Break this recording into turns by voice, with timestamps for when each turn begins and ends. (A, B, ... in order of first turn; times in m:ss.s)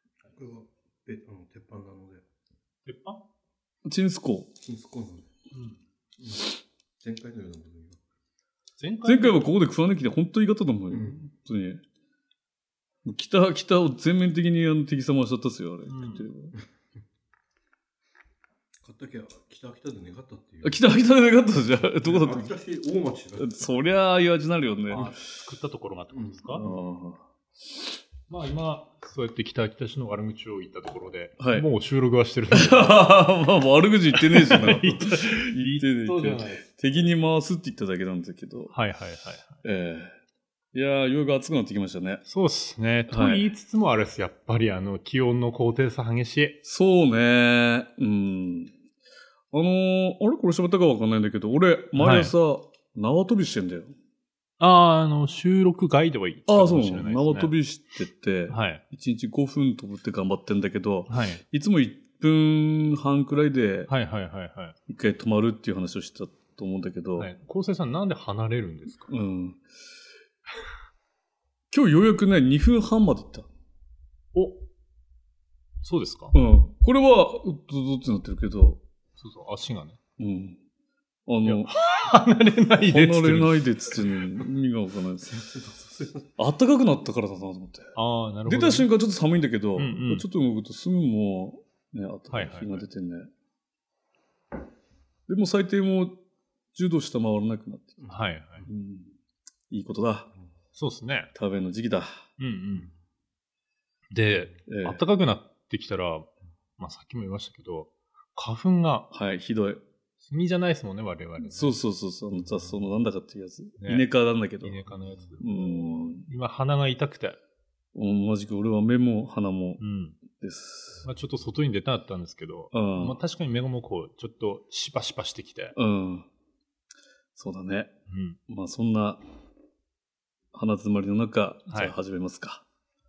0:00.3-0:02.2 A
0:02.8-0:03.2 B
0:03.8-0:04.5 C
0:04.6-0:05.3 A
0:06.2-0:06.4 A
0:07.0-0:08.0 A
0:08.8-0:09.5 B
0:09.0-0:11.8 C
0:10.9-0:11.2 A
0:13.0-0:16.6 C
0:15.9-0:16.2 B
0:18.8-0:20.8 A
0:20.6-0:22.5 C
0:22.0-0:23.6 A
0:23.4-0:25.0 C
0:24.9-0:26.7 B
0:26.1-0:26.4 A
0:26.5-0:27.2 C
0:28.3-0:33.1 B
0:31.4-0:31.7 C
0:32.5-0:38.7 C
0:34.1-0:36.9 B
0:38.7-0:39.6 B
0:39.6-0:40.2 C
0:40.7-0:42.2 C
0:42.2-0:46.6 B
0:43.1-0:43.4 C
0:46.6-0:48.7 C
0:49.5-0:53.9 C
0:52.0-0:52.3 B
0:54.6-0:57.5 B
0:56.5-1:03.9 C
0:58.5-0:58.8 B
1:01.1-1:01.4 B
1:03.9-1:04.8 B
1:04.9-1:07.3 C
1:07.2-1:09.1 B
1:09.1-1:09.6 C
1:11.7-1:13.5 C
1:14.3-1:14.6 B
1:15.8-1:16.3 B
1:16.3-1:18.8 C
1:19.2-1:20.0 B
1:20.2-1:20.6 C
1:21.3-1:21.7 C
1:21.4-1:23.6 B
1:22.8-1:25.4 C
1:25.3-1:26.3 A
1:26.4-1:33.3 C
1:28.0-1:28.9 B
1:29.8-1:30.2 B
1:32.3-1:32.8 B
1:35.3-1:36.2 C
1:36.7-1:38.1 C
1:38.1-1:38.6 B
1:38.6-1:39.1 C
1:39.7-1:40.3 C
1:40.8-1:41.3 B
1:41.3-1:42.2 C
1:42.4-1:42.9 B
1:44.1-1:49.1 B
1:44.7-1:45.0 C
1:49.1-1:49.8 C
1:50.2-1:51.8 B
1:51.4-1:54.8 C
1:53.8-1:54.1 B
1:54.6-1:57.4 B
1:55.4-1:56.2 C
1:57.9-2:01.1 C
1:59.8-2:00.2 B
2:01.0-2:05.7 B
2:02.7-2:03.2 C
2:05.7-2:06.3 C
2:07.4-2:07.9 C
2:08.1-2:08.4 B
2:08.5-2:09.2 C
2:10.5-2:12.6 C